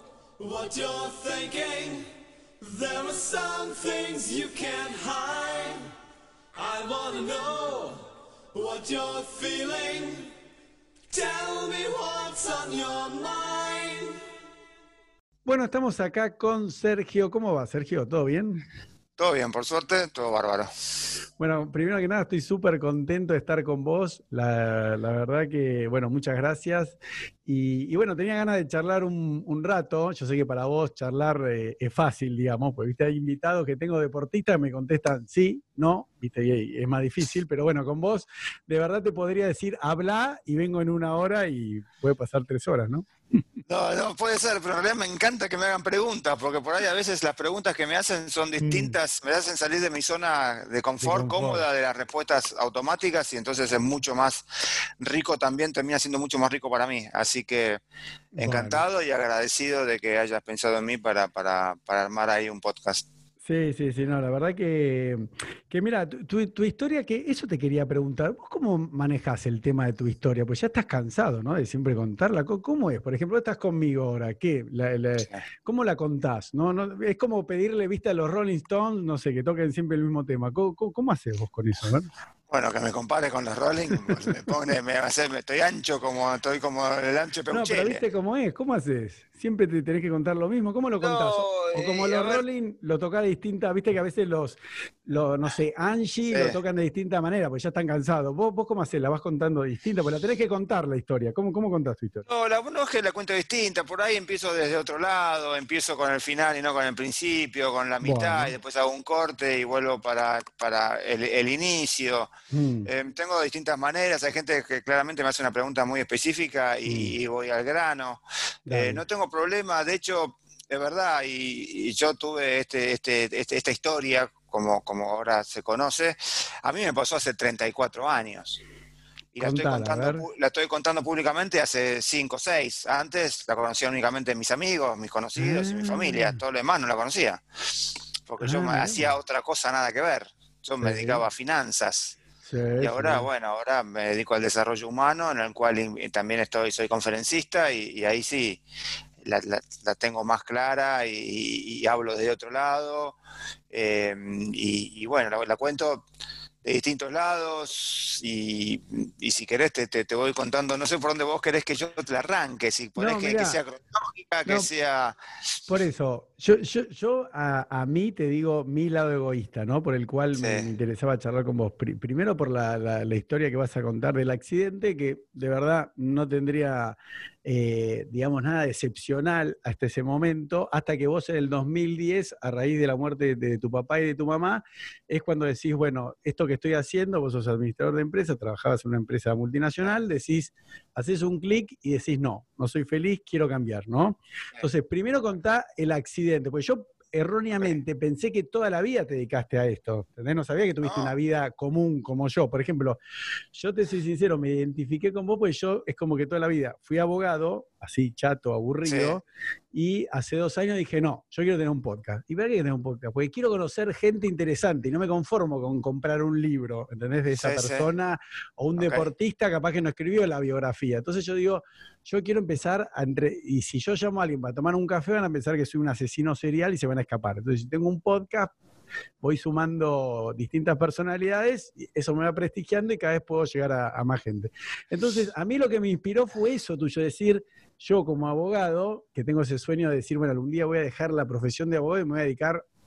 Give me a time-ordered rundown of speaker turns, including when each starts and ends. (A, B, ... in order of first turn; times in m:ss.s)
0:00.4-0:02.1 A
0:02.6-0:05.9 A
0:06.5-0:10.3 A
0:11.1-0:14.2 A
0:15.4-0:18.6 B
0:19.2-0:20.7 C
0:21.4-0:43.1 B
0:43.6-0:54.4 C
0:48.6-0:49.0 B
0:51.0-0:51.6 B
0:55.0-0:57.8 C
0:58.3-0:58.8 B
0:58.4-1:03.0 C
1:03.4-1:22.1 B
1:22.5-1:28.0 C
1:27.5-1:42.2 B
1:31.0-1:32.4 C
1:36.3-1:36.6 C
1:42.2-1:52.3 C
1:48.0-1:48.5 B
1:52.5-1:52.9 B
1:52.8-2:08.6 C
1:56.8-1:57.1 B
1:58.7-1:59.0 B
2:09.3-2:17.4 C
2:09.4-2:10.2 B
2:15.4-2:16.4 B
2:18.3-2:22.2 C
2:18.4-2:19.1 B
2:20.8-2:21.2 B
2:22.4-2:23.2 B
2:22.8-2:28.6 C
2:29.2-2:33.2 C
2:33.7-2:36.0 C
2:36.6-2:45.2 C
2:43.0-2:43.6 B
2:45.7-3:23.0 B
2:50.3-2:50.7 C
3:20.8-3:21.1 C
3:23.5-3:48.5 B
3:28.8-3:29.2 C
3:37.3-3:37.9 C
3:38.8-3:39.1 C
3:49.2-4:02.6 B